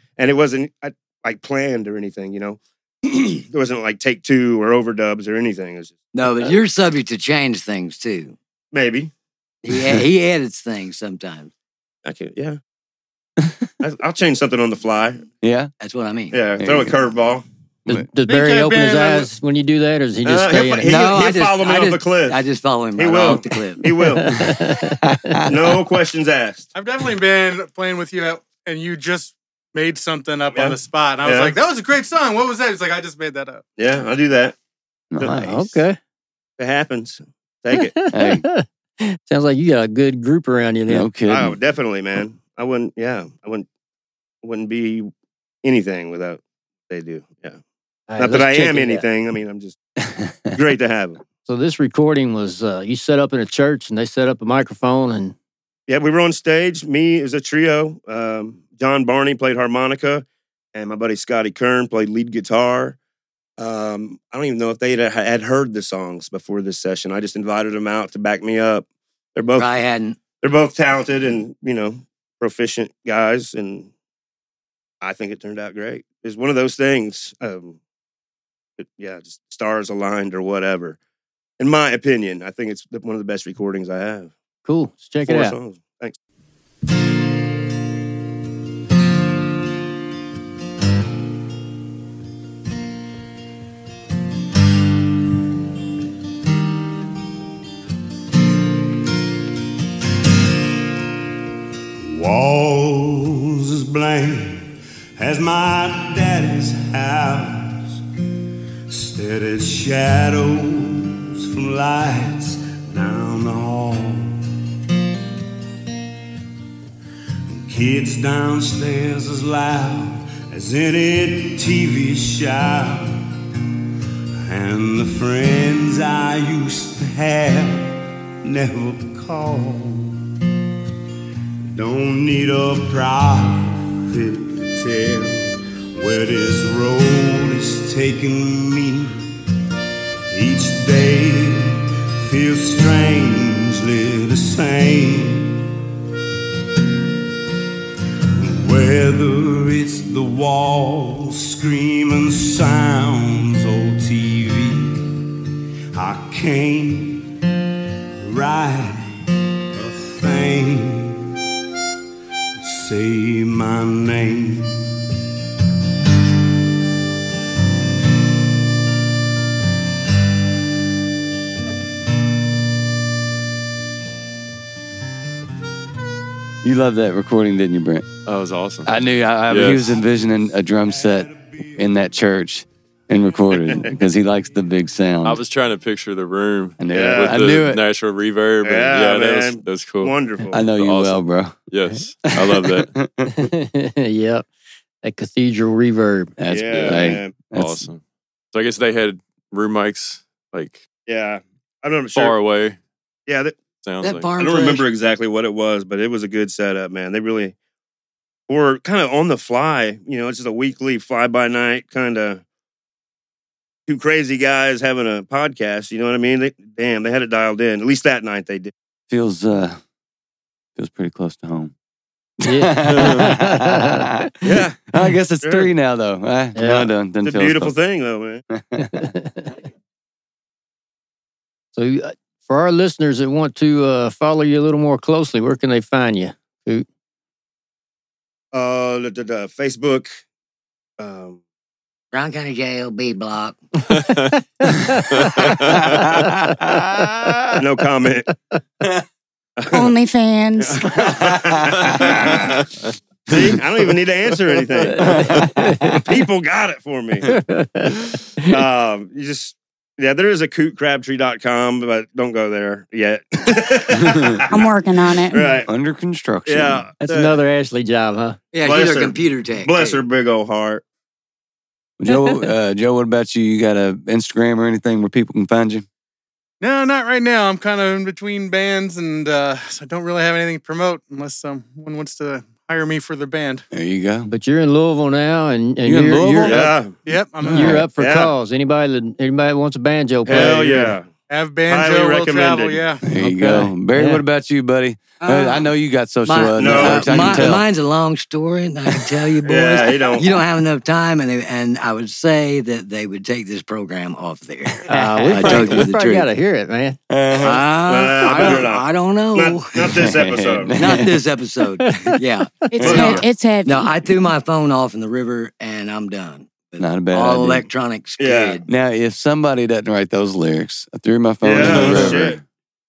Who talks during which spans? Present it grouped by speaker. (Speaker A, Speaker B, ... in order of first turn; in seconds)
Speaker A: 0.2-6.0, 8.7-9.1, 12.0-12.6, 13.8-15.2, 16.3-17.4, 18.7-19.1, 20.2-22.4, 22.9-24.4, 25.4-26.7, 30.5-31.6, 33.8-34.5, 35.2-35.5, 36.6-38.0, 41.3-43.7, 44.4-45.1, 45.6-47.6, 48.2-49.8, 50.5-51.2, 55.9-63.0, 63.6-69.7, 70.4-73.9, 75.0-77.8, 78.8-81.0, 81.6-84.3, 85.2-86.2, 186.9-187.4, 188.6-190.6, 196.5-197.3, 201.1-202.4, 203.3-203.6, 204.4-207.5, 208.5-212.4, 213.9-218.7, 224.4-224.8, 225.4-225.7, 227.2-228.4, 238.5-240.1, 241.0-241.4, 247.5-248.3, 249.6-249.9, 250.6-252.7, 253.3-255.3, 255.9-257.3, 258.4-264.7, 265.3-265.7, 266.4-267.4, 268.6-270.8, 286.4-286.9, 288.0-288.3, 290.2-291.1, 291.7-292.8, 296.6-297.6, 299.4-300.3, 307.9-310.8, 318.2-318.6, 321.4-322.4
Speaker B: 6.1-8.3, 9.6-11.5, 15.8-16.4, 20.8-23.9, 69.6-70.2, 204.0-204.8, 242.1-243.6, 268.5-270.0, 295.2-306.3, 307.3-310.1, 310.7-318.6, 321.7-322.1
Speaker C: 13.4-13.7, 15.4-15.7, 16.6-16.9, 24.4-25.5, 35.1-35.8, 38.1-38.4, 40.9-41.5, 176.6-178.1, 178.8-185.4, 186.8-187.8, 190.5-193.5, 196.4-197.8, 219.1-219.8, 220.8-221.7, 222.4-227.7, 228.5-229.0, 246.6-247.3, 250.9-251.2, 255.0-255.4, 263.9-264.4, 265.6-266.9, 272.0-275.8, 283.7-284.3, 285.8-286.8, 287.4-287.9, 293.0-297.6, 307.1-307.6, 309.9-311.1, 312.8-313.2, 316.8-317.7, 318.7-322.4
Speaker D: 17.9-20.9, 24.0-25.5, 35.3-36.0, 37.7-41.1, 48.1-49.0, 51.5-55.4, 84.6-85.5, 193.2-194.5, 195.0-196.3, 222.4-224.3, 226.5-226.9, 228.9-229.5, 231.8-236.8, 244.6-245.1, 246.3-246.7, 255.0-256.1, 257.3-258.5, 267.0-268.4, 284.2-286.6, 287.5-290.9, 293.1-294.2, 304.9-307.0, 311.8-312.2
Speaker E: 18.4-19.2, 26.7-33.6, 276.6-283.6, 287.0-287.9, 291.3-293.0
Speaker F: 102.0-108.0, 108.9-114.3, 117.5-123.2, 124.4-130.2, 131.7-139.2, 140.3-145.6, 148.3-155.1, 155.9-157.3, 158.2-159.0, 159.7-161.3, 162.6-165.0, 179.7-181.9
Speaker G: 178.2-179.9, 185.2-192.9, 196.7-200.8, 202.1-202.8, 203.8-204.3, 222.9-223.2, 245.2-245.6, 251.9-252.8
Speaker H: 249.7-251.0, 264.5-265.6, 312.7-314.2